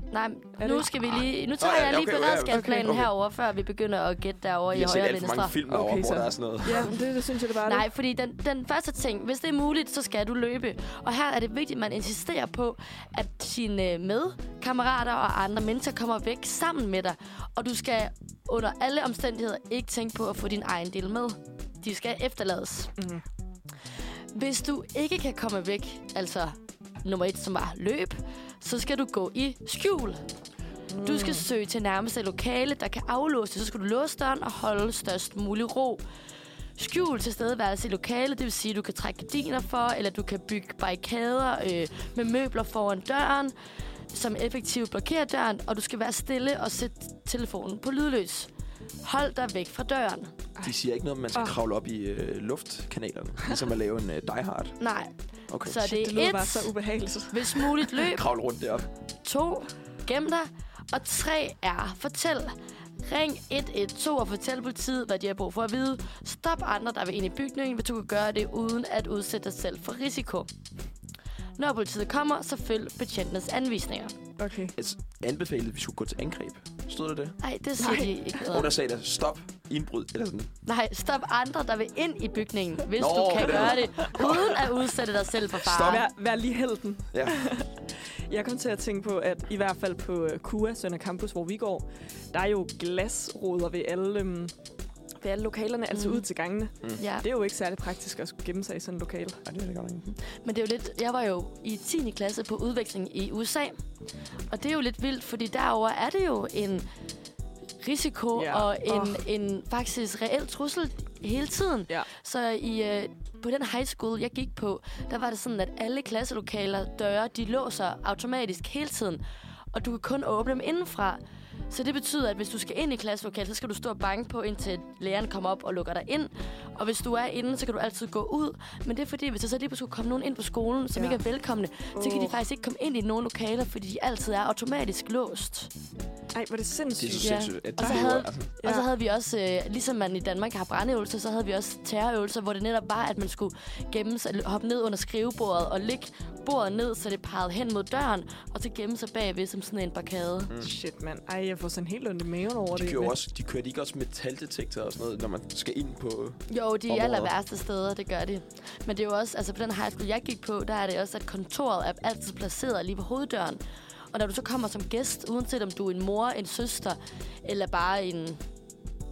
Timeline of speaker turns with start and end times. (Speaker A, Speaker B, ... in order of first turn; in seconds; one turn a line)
Speaker A: 0.1-5.5
Speaker B: 0.6-0.9
Speaker C: 1.6-3.1
Speaker B: 2.5-2.9
Speaker C: 4.7-6.9
Speaker B: 5.7-7.8
Speaker A: 7.6-22.9
Speaker B: 23.0-23.2
Speaker A: 24.3-30.2
Speaker B: 30.9-31.4
Speaker A: 31.0-36.0
Speaker A: 36.8-43.5
Speaker A: 44.1-48.5
Speaker A: 49.0-50.3
Speaker C: 50.6-54.8
Speaker A: 54.8-55.1
Speaker C: 55.5-55.8
Speaker A: 55.6-56.7
Speaker B: 55.7-57.9
Speaker A: 57.3-58.2
Speaker C: 58.0-58.9
Speaker A: 59.2-70.5
Speaker A: 71.6-74.2
Speaker B: 74.4-74.7
Speaker C: 74.8-77.3
Speaker A: 77.4-78.7
Speaker B: 77.8-78.4
Speaker C: 78.4-80.5
Speaker A: 80.7-86.0
Speaker C: 83.0-84.7
Speaker B: 83.4-84.1
Speaker C: 85.6-86.1
Speaker B: 85.8-87.7
Speaker B: 88.3-94.5
Speaker B: 95.2-99.4
Speaker A: 95.9-96.2
Speaker A: 97.0-97.2
Speaker C: 99.4-100.1
Speaker A: 100.1-103.8
Speaker A: 104.5-106.9
Speaker A: 107.8-119.2
Speaker B: 108.3-109.2
Speaker A: 119.7-135.7
Speaker B: 130.9-131.2
Speaker B: 131.9-132.3
Speaker B: 136.3-138.1
Speaker C: 137.0-138.5
Speaker A: 137.2-150.5
Speaker B: 138.6-138.9
Speaker B: 150.6-153.2
Speaker C: 152.7-157.3
Speaker A: 156.5-163.6
Speaker A: 164.1-168.4